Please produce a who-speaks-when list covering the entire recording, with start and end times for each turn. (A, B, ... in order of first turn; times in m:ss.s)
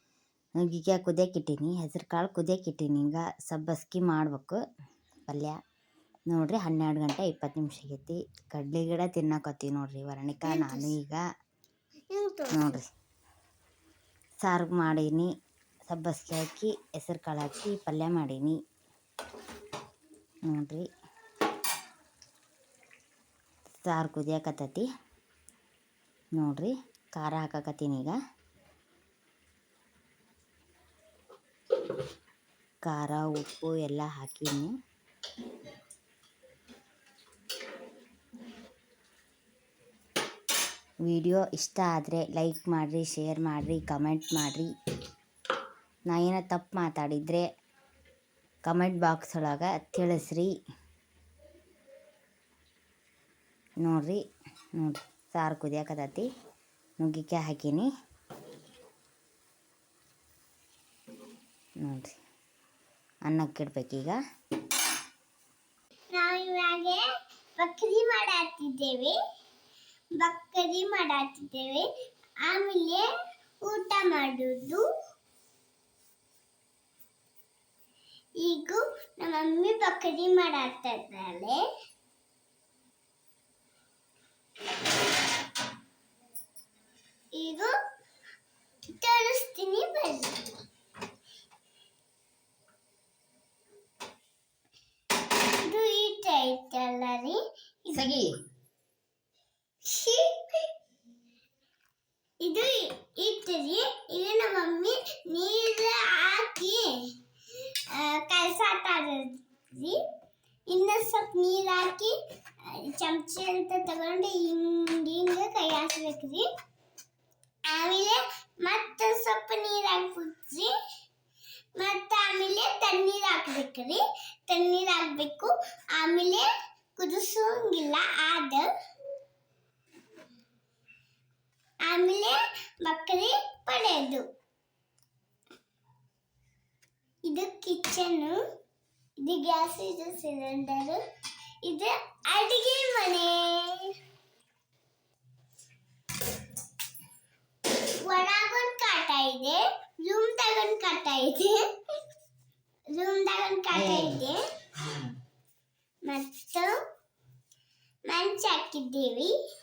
0:00.6-0:04.6 A
0:05.3-0:05.6 A
0:06.3-0:11.2 A
0:10.4-0:10.9 B
0:12.1-0:12.8 B
0:12.5-0:12.9 A
0:14.4-0:15.3 A
0:15.9-0:18.6 A
0:20.5-0:20.9 A
0:23.8-0:24.9 A
0:26.4-0:28.1 A
0:32.8-0:34.7 A
0:41.0-0:44.7 A
0:46.1-0:47.4 A
0:48.6-0:50.5 A
0:53.8-0:54.2 A
0:54.8-0:56.3 A
0:57.0-0:57.9 A
1:01.8-1:02.1 A
1:03.2-1:04.2 A
1:06.1-1:07.0 B
1:07.6-1:09.2 B
1:10.2-1:11.9 B
1:12.4-1:13.1 B
1:13.6-1:14.8 B
1:18.4-1:21.6 B
1:27.3-1:27.7 B
1:28.9-1:30.5 B
1:35.6-1:38.1 B
1:37.9-1:38.4 A
1:39.8-1:40.3 B
1:42.4-1:47.1 B
1:47.9-1:50.0 B
1:50.7-1:56.5 B
1:57.7-2:00.7 B
2:01.8-2:08.7 B
2:11.8-2:14.2 B
2:17.2-2:18.4 B
2:19.2-2:21.0 B
2:21.6-2:24.0 B
2:28.0-2:31.6 B
2:32.9-2:34.4 B
2:33.7-2:34.2 A
2:34.8-2:35.1 A
2:36.0-2:36.7 B
2:38.1-2:39.3 B